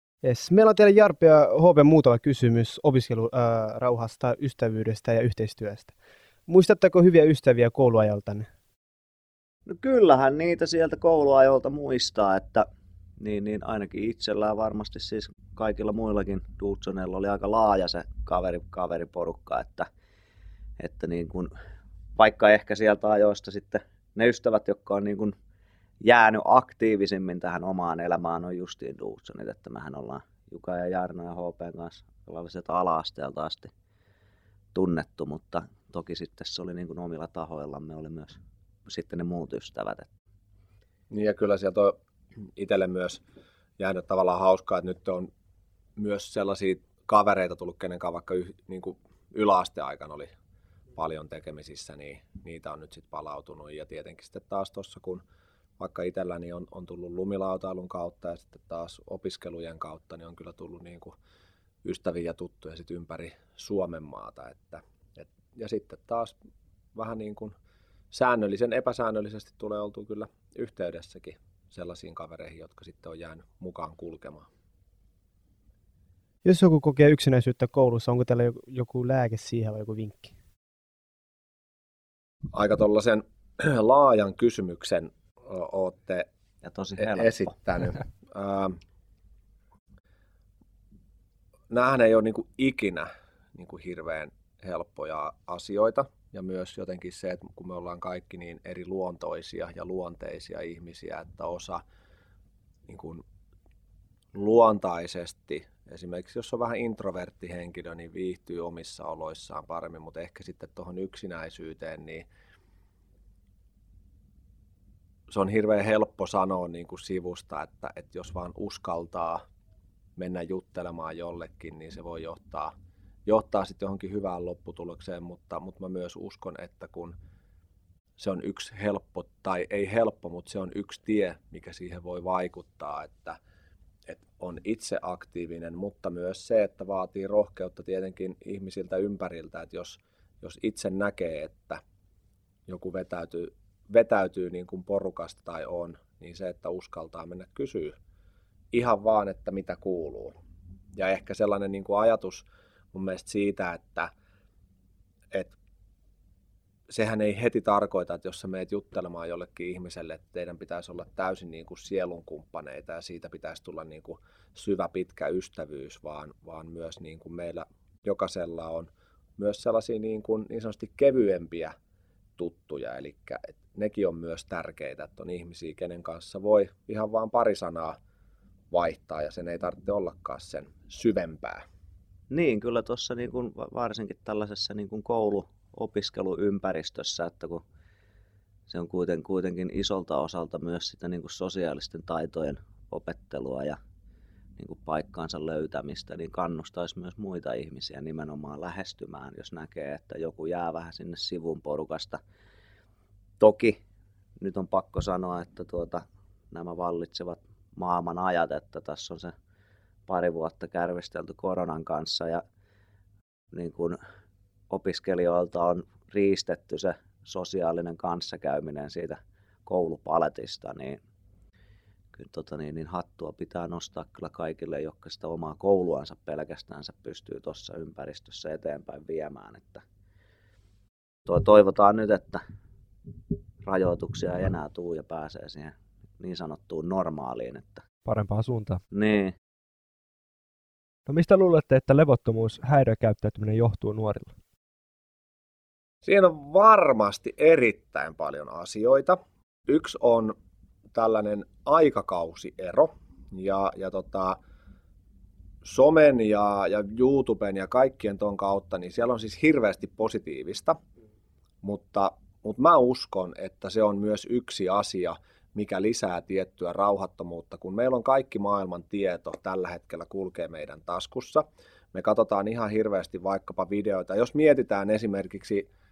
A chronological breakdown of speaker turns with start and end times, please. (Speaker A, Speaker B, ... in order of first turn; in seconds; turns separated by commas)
Speaker A: 0.2-5.9, Speaker A: 6.5-8.4, Speaker B: 9.7-12.7, Speaker B: 13.2-19.9, Speaker B: 20.8-21.5, Speaker B: 22.1-25.3, Speaker B: 26.0-33.7, Speaker B: 34.7-40.1, Speaker C: 41.1-42.0, Speaker C: 42.5-43.2, Speaker C: 43.8-45.3, Speaker C: 46.0-50.3, Speaker C: 50.9-55.2, Speaker C: 55.8-61.2, Speaker C: 61.8-66.3, Speaker C: 66.9-67.5, Speaker C: 68.1-74.5, Speaker A: 76.4-80.3, Speaker C: 82.5-86.3, Speaker B: 86.6-87.5, Speaker C: 87.0-88.8, Speaker C: 91.7-101.8, Speaker C: 102.9-103.2, Speaker C: 104.3-112.2, Speaker C: 115.3-119.4, Speaker C: 120.2-122.7, Speaker C: 123.3-127.1, Speaker C: 128.2-133.4, Speaker C: 134.1-141.8, Speaker C: 142.7-147.9, Speaker C: 148.7-150.3, Speaker C: 150.9-154.1, Speaker C: 156.9-171.7, Speaker C: 172.4-177.9, Speaker C: 178.7-181.7, Speaker B: 182.3-187.6, Speaker B: 188.7-193.8, Speaker B: 194.6-202.2, Speaker B: 203.4-203.8, Speaker B: 204.4-209.3, Speaker B: 210.1-212.4, Speaker B: 213.5-214.0, Speaker B: 214.7-221.0, Speaker B: 222.1-229.8, Speaker B: 231.3-232.4, Speaker B: 233.6-237.8, Speaker D: 238.0-238.8, Speaker B: 238.9-239.3, Speaker D: 241.1-244.3, Speaker C: 246.0-250.3, Speaker C: 250.9-254.4, Speaker C: 255.6-260.8, Speaker C: 261.6-275.6